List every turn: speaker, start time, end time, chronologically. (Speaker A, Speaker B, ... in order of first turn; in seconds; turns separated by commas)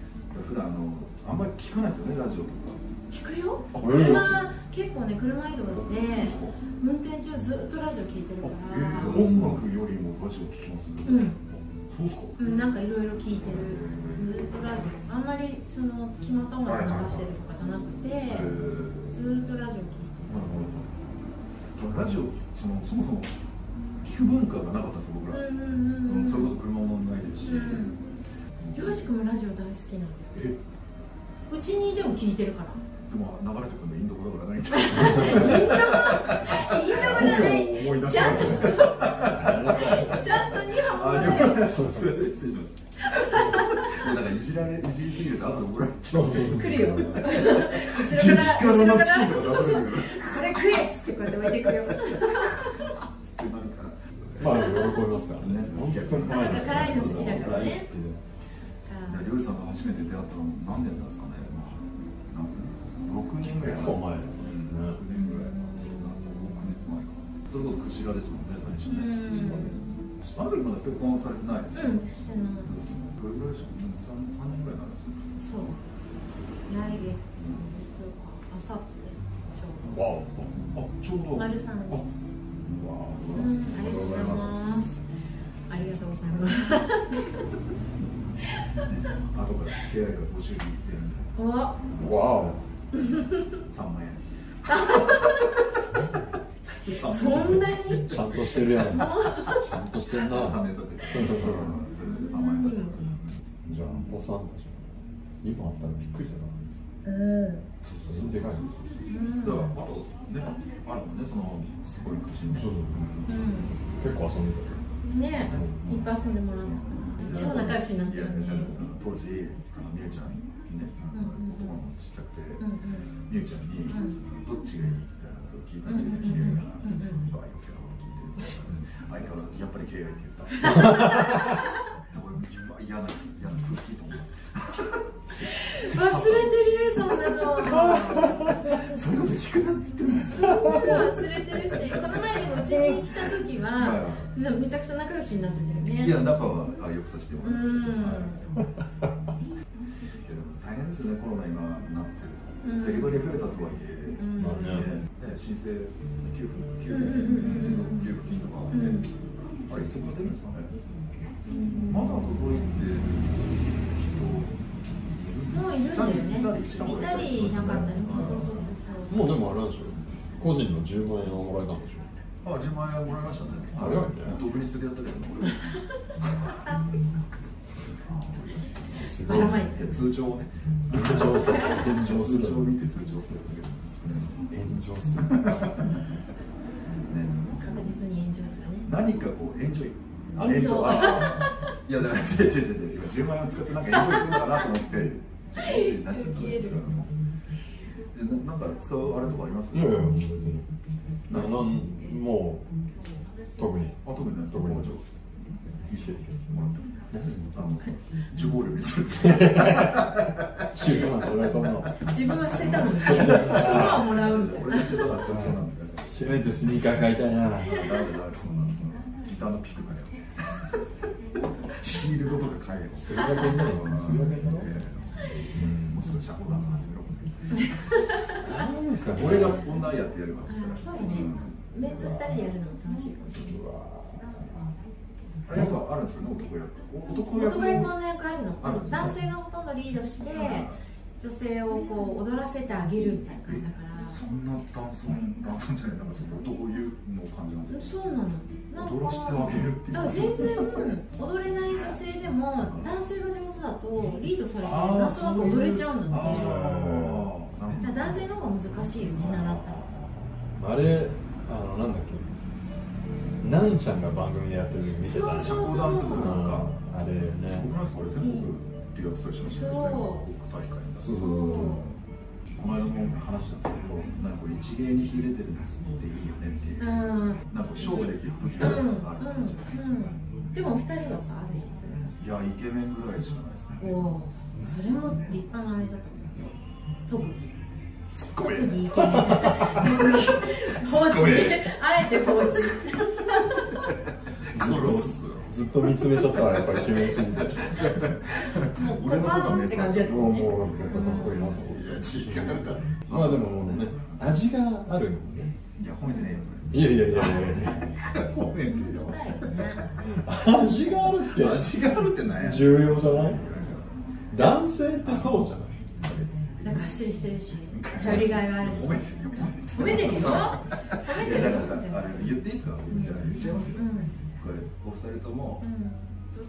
Speaker A: 0.3-2.8, Speaker B: 3.1-9.2, Speaker A: 3.7-4.3, Speaker C: 3.8-4.4, Speaker A: 5.7-6.6, Speaker A: 8.4-12.6, Speaker C: 9.0-9.6, Speaker B: 11.1-11.4, Speaker B: 12.4-20.5, Speaker A: 13.3-14.4, Speaker A: 16.6-17.4, Speaker A: 18.2-19.1, Speaker A: 20.3-20.9, Speaker A: 21.7-23.4, Speaker A: 24.0-25.4, Speaker B: 25.3-26.6, Speaker A: 26.0-27.9, Speaker B: 27.4-28.0, Speaker A: 28.6-29.1, Speaker B: 28.7-30.3, Speaker A: 30.3-30.6, Speaker B: 31.5-32.8, Speaker A: 33.1-54.8, Speaker B: 34.7-41.8, Speaker C: 35.0-35.6, Speaker C: 38.2-40.4, Speaker C: 41.4-42.0, Speaker B: 43.0-44.0, Speaker C: 46.1-47.4, Speaker B: 46.4-52.9, Speaker C: 54.4-58.2, Speaker B: 54.5-55.0, Speaker A: 55.4-57.8, Speaker B: 56.2-57.9, Speaker B: 58.9-59.3, Speaker A: 59.1-69.5, Speaker C: 63.4-65.0, Speaker B: 65.1-66.5, Speaker B: 68.8-69.9, Speaker C: 69.2-70.3, Speaker A: 70.3-72.1, Speaker B: 71.7-72.7, Speaker A: 72.6-75.3, Speaker B: 75.4-75.8, Speaker B: 76.7-80.0, Speaker C: 79.8-80.5, Speaker A: 80.5-82.1, Speaker B: 81.3-82.1, Speaker C: 82.7-84.8, Speaker A: 83.1-84.5, Speaker B: 83.3-85.0, Speaker B: 85.7-87.5, Speaker B: 88.5-88.8, Speaker A: 88.8-91.3, Speaker B: 91.3-91.8, Speaker C: 92.0-92.6, Speaker B: 92.9-93.6, Speaker A: 93.7-95.5, Speaker B: 94.7-95.6, Speaker A: 96.8-97.8, Speaker B: 96.9-99.6, Speaker C: 97.3-101.7, Speaker A: 100.2-104.1, Speaker B: 102.1-103.0, Speaker C: 103.6-106.5, Speaker B: 107.0-107.7, Speaker A: 107.8-113.4, Speaker C: 108.0-108.8, Speaker B: 109.1-109.7, Speaker C: 112.5-113.2, Speaker B: 113.3-113.7, Speaker C: 113.9-114.8, Speaker B: 115.1-118.8, Speaker C: 115.5-115.9, Speaker A: 116.6-122.6, Speaker C: 117.2-117.7, Speaker B: 121.1-121.8, Speaker B: 122.6-123.1, Speaker A: 123.3-131.2, Speaker B: 123.9-124.2, Speaker B: 125.8-127.2, Speaker B: 130.6-131.6, Speaker A: 132.0-136.6, Speaker B: 135.4-138.5, Speaker C: 137.7-138.7, Speaker A: 137.8-144.3, Speaker B: 140.3-146.2, Speaker C: 140.5-141.0, Speaker A: 146.0-148.6, Speaker B: 147.4-148.4, Speaker A: 150.2-159.1, Speaker B: 152.6-153.2, Speaker B: 154.2-155.0, Speaker C: 154.4-155.0, Speaker B: 156.9-158.1, Speaker B: 158.7-159.1, Speaker A: 159.6-160.8, Speaker B: 161.5-162.2, Speaker A: 161.8-168.7, Speaker B: 165.5-169.3, Speaker C: 169.1-172.1, Speaker A: 172.4-176.8, Speaker C: 173.7-174.4, Speaker A: 177.9-184.4, Speaker C: 178.9-179.9, Speaker B: 179.2-179.9, Speaker C: 180.9-182.7, Speaker B: 181.5-181.8, Speaker C: 184.5-185.9, Speaker A: 185.2-185.9, Speaker A: 187.0-187.6, Speaker B: 187.5-188.9, Speaker A: 188.8-197.1, Speaker B: 190.4-191.7, Speaker B: 194.1-194.4, Speaker B: 195.6-196.9, Speaker A: 198.1-200.1, Speaker C: 199.7-200.7, Speaker A: 201.3-201.8, Speaker C: 201.3-202.7, Speaker C: 203.6-204.9, Speaker A: 204.0-205.6, Speaker C: 205.9-206.4, Speaker A: 206.4-206.9, Speaker C: 207.1-207.6, Speaker A: 207.5-211.0, Speaker C: 209.2-212.0, Speaker B: 212.0-215.2, Speaker A: 212.5-216.1, Speaker C: 212.8-214.2, Speaker C: 215.2-217.9, Speaker A: 217.6-220.8, Speaker A: 221.6-227.8, Speaker C: 223.0-224.7, Speaker C: 225.5-226.0, Speaker B: 227.5-228.4, Speaker C: 228.4-229.7, Speaker A: 229.1-231.5, Speaker B: 230.5-233.6, Speaker C: 231.9-232.2, Speaker C: 233.3-234.5, Speaker A: 235.4-237.9, Speaker B: 237.3-244.2, Speaker A: 238.6-239.2, Speaker A: 240.3-240.8, Speaker A: 243.4-248.0, Speaker B: 247.7-256.6, Speaker A: 248.7-250.8, Speaker A: 252.6-252.9, Speaker A: 254.6-260.3, Speaker C: 256.2-257.3, Speaker B: 257.8-259.8, Speaker C: 260.6-262.2, Speaker C: 263.4-267.7, Speaker B: 265.0-266.4, Speaker A: 265.3-266.8, Speaker A: 267.5-271.9, Speaker B: 268.2-268.4, Speaker B: 269.4-270.2, Speaker C: 271.0-271.9, Speaker B: 271.1-271.9, Speaker A: 272.5-279.8, Speaker B: 276.8-282.1, Speaker A: 282.2-284.0, Speaker B: 283.8-286.5, Speaker B: 287.1-287.5, Speaker A: 288.1-292.9, Speaker B: 288.4-293.8, Speaker C: 288.9-289.8, Speaker A: 294.5-295.5, Speaker C: 294.5-298.0, Speaker A: 296.1-304.3, Speaker B: 298.4-301.4, Speaker C: 300.0-305.6, Speaker A: 305.8-310.2, Speaker C: 306.7-307.9, Speaker B: 308.6-309.9, Speaker C: 310.1-311.7, Speaker A: 311.2-313.9, Speaker C: 312.3-313.4, Speaker C: 314.3-315.8, Speaker A: 315.0-317.0, Speaker B: 316.6-322.3, Speaker A: 317.7-325.6, Speaker C: 318.1-318.9, Speaker B: 322.9-324.1, Speaker B: 325.6-326.1